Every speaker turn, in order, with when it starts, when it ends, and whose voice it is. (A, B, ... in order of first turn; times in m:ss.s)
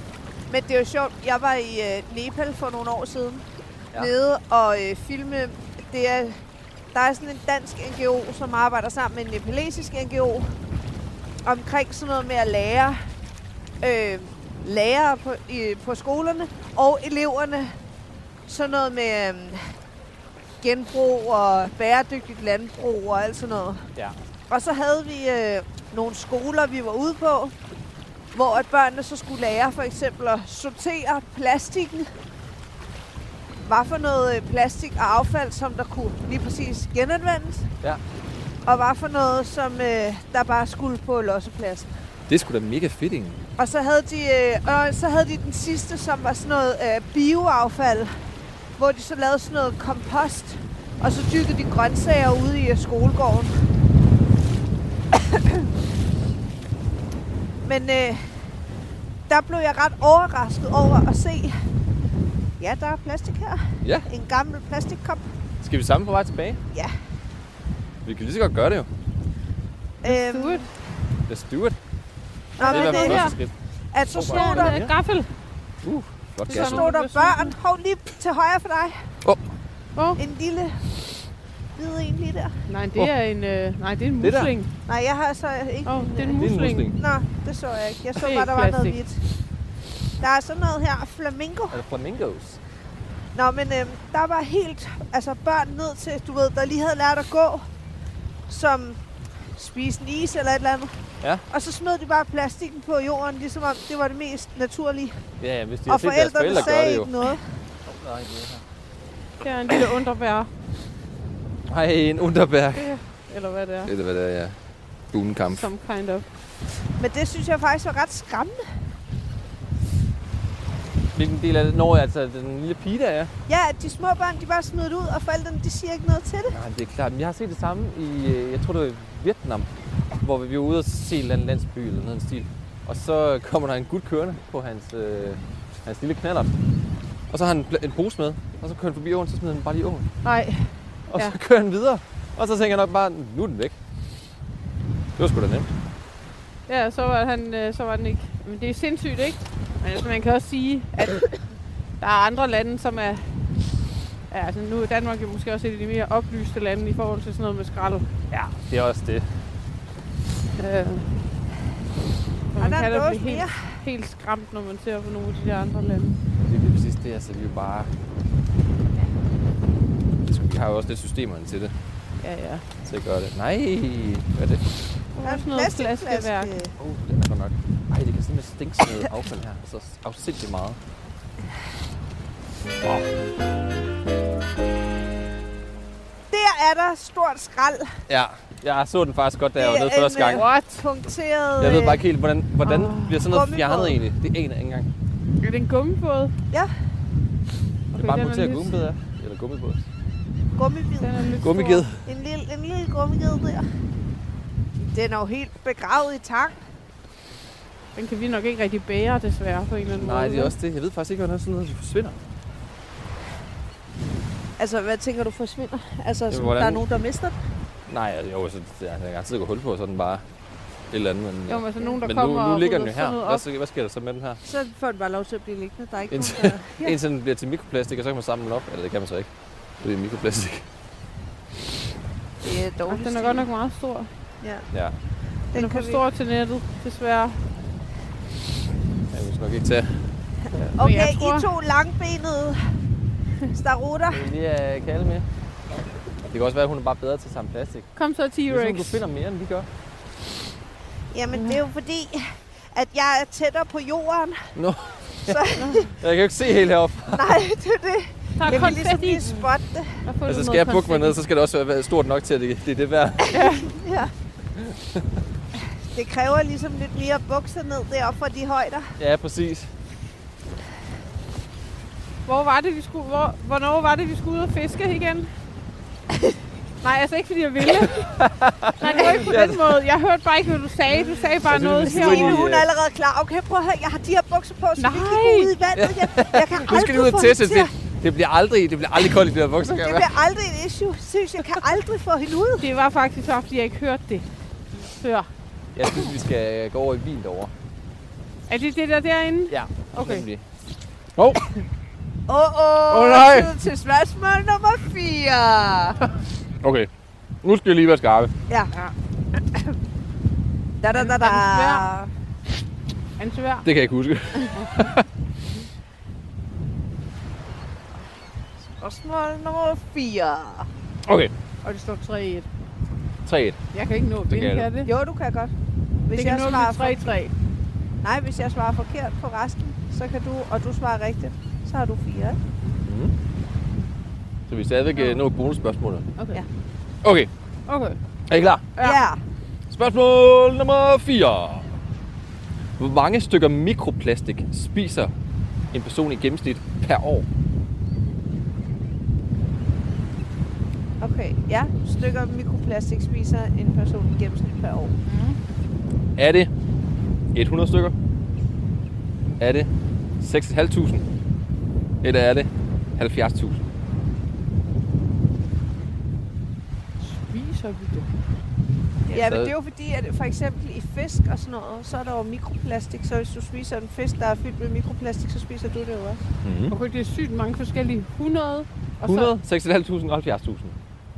0:00.5-0:06.4 A
0:06.9-0:10.5 A
0:11.4-0:13.0 A
0:13.8-0:17.8 A
0:18.5-0:19.6 A
0:20.6-0:23.9 A
0:24.5-0:27.5 A
0:28.3-0:32.1 A
0:33.6-0:37.7 A
0:38.6-0:41.9 A
0:42.3-0:43.4 B
0:43.6-0:48.1 A
0:48.8-0:53.6 A
0:55.1-0:55.7 A
0:57.6-0:58.3 A
0:59.3-1:01.6 A
1:02.6-1:05.2 A
1:05.6-1:06.6 B
1:08.0-1:08.9 B
1:10.0-1:10.7 A
1:10.0-1:10.7 C
1:11.3-1:11.8 B
1:12.6-1:13.3 A
1:12.6-1:13.4 C
1:12.6-1:13.5 B
1:13.9-1:14.8 A
1:14.1-1:14.9 B
1:14.2-1:15.3 C
1:15.8-1:16.8 B
1:16.5-1:17.5 C
1:16.5-1:19.1 A
1:20.2-1:20.9 A
1:21.8-1:22.6 A
1:22.7-1:24.7 C
1:24.2-1:24.5 B
1:24.9-1:26.4 A
1:25.8-1:26.9 C
1:26.3-1:27.0 B
1:27.0-1:29.2 A
1:28.2-1:29.0 C
1:30.2-1:31.8 A
1:31.7-1:32.6 B
1:33.3-1:37.7 A
1:38.5-1:39.0 A
1:39.6-1:41.0 A
1:41.5-1:45.2 A
1:45.4-1:47.1 B
1:45.9-1:47.4 A
1:47.8-1:48.6 B
1:49.4-1:50.5 C
1:51.7-1:53.0 B
1:52.7-1:53.9 C
1:53.9-1:54.6 B
1:55.1-1:55.7 B
1:55.5-1:56.2 C
1:57.0-1:58.6 A
2:01.1-2:03.3 B
2:03.5-2:06.6 A
2:06.5-2:09.7 B
2:10.2-2:16.5 B
2:17.3-2:20.1 B
2:20.2-2:21.4 C
2:21.1-2:23.7 B
2:25.2-2:25.7 B
2:26.7-2:31.3 C
2:32.0-2:33.4 C
2:34.3-2:38.1 C
2:38.3-2:39.3 B
2:40.6-2:41.1 C
2:42.5-2:46.2 C
2:42.6-2:43.6 A
2:46.4-2:47.9 B
2:50.2-2:51.7 B
2:52.2-2:52.6 C
2:52.8-2:54.8 B
2:55.2-2:56.5 C
2:55.2-2:56.7 A
2:56.8-3:00.8 B
3:06.3-3:08.0 A
3:08.1-3:10.5 B
3:09.6-3:12.0 A
3:10.3-3:10.8 C
3:11.6-3:14.9 B
3:12.6-3:13.2 C
3:13.2-3:14.0 A
3:15.4-3:16.3 C
3:17.9-3:18.8 C
3:18.0-3:19.8 B
3:20.5-3:21.1 A
3:21.0-3:21.8 C
3:21.4-3:22.0 B
3:22.0-3:23.6 A
3:24.8-3:26.6 A
3:28.0-3:30.5 C
3:29.9-3:32.2 B
3:34.6-3:37.4 A
3:36.3-3:36.8 B
3:37.9-3:40.2 B
3:40.9-3:44.4 B
3:41.5-3:43.4 C
3:44.4-3:47.0 A
3:46.1-3:49.3 B
3:49.8-3:50.6 B
3:52.4-3:53.4 A
3:52.9-3:54.1 C
3:54.4-3:54.7 A
3:55.5-3:56.0 A
3:55.5-3:57.4 C
3:59.1-4:00.1 B
4:00.5-4:01.5 C
4:00.7-4:02.6 A
4:03.5-4:04.2 A
4:04.1-4:05.2 B
4:06.3-4:07.9 B
4:08.0-4:09.0 C
4:08.5-4:09.7 B
4:11.1-4:14.5 A
4:11.3-4:11.6 C
4:14.6-4:17.3 B
4:15.3-4:15.9 A
4:15.6-4:15.8 C
4:17.1-4:20.0 A
4:18.4-4:19.4 C
4:20.0-4:21.2 C
4:20.3-4:23.3 B
4:23.3-4:23.7 C
4:23.3-4:24.1 A
4:24.6-4:25.0 B
4:25.5-4:28.9 A
4:29.0-4:29.7 B
4:32.2-4:35.3 C
4:36.8-4:38.0 C
4:38.0-4:39.7 B
4:38.8-4:42.4 C
4:41.4-4:42.7 B
4:41.8-4:47.7 A
4:44.8-4:45.6 C
4:45.8-4:50.1 B
4:49.6-4:52.7 A
4:52.6-4:54.3 C
4:54.9-4:55.3 C
4:55.8-4:57.5 B
4:58.5-5:00.3 C
4:59.5-5:00.4 B
5:01.2-5:01.4 B
5:02.3-5:06.0 A
5:02.9-5:03.5 B
5:06.6-5:06.9 B
5:07.4-5:08.3 B
5:09.3-5:09.8 A
5:10.8-5:12.1 A
5:10.9-5:11.9 C
5:13.2-5:13.7 C
5:13.6-5:15.0 B
5:14.4-5:14.7 C
5:18.6-5:20.7 A
5:21.0-5:21.3 B
5:21.6-5:22.5 C
5:23.2-5:23.6 B
5:23.7-5:24.9 C
5:24.3-5:24.7 B
5:24.8-5:25.5 A
5:26.0-5:27.0 A
5:26.1-5:27.3 C
5:28.0-5:32.4 A
5:32.8-5:33.1 B
5:34.5-5:36.0 B
5:34.9-5:35.2 C
5:36.2-5:36.4 C
5:37.0-5:37.3 B
5:37.7-5:38.0 C
5:38.3-5:38.7 B
5:38.8-5:39.2 A
5:39.7-5:41.7 B
5:42.8-5:45.1 B
5:45.7-5:47.2 B
5:51.0-5:54.9 A
5:55.0-5:55.4 C
5:56.2-5:56.5 B
5:57.3-5:57.9 B
5:59.4-5:59.7 B
6:00.2-6:01.0 B
6:02.0-6:03.6 B
6:07.0-6:08.1 C
6:09.1-6:16.3 A
6:09.1-6:09.5 B
6:16.4-6:16.7 B
6:16.7-6:19.3 C
6:19.0-6:20.8 B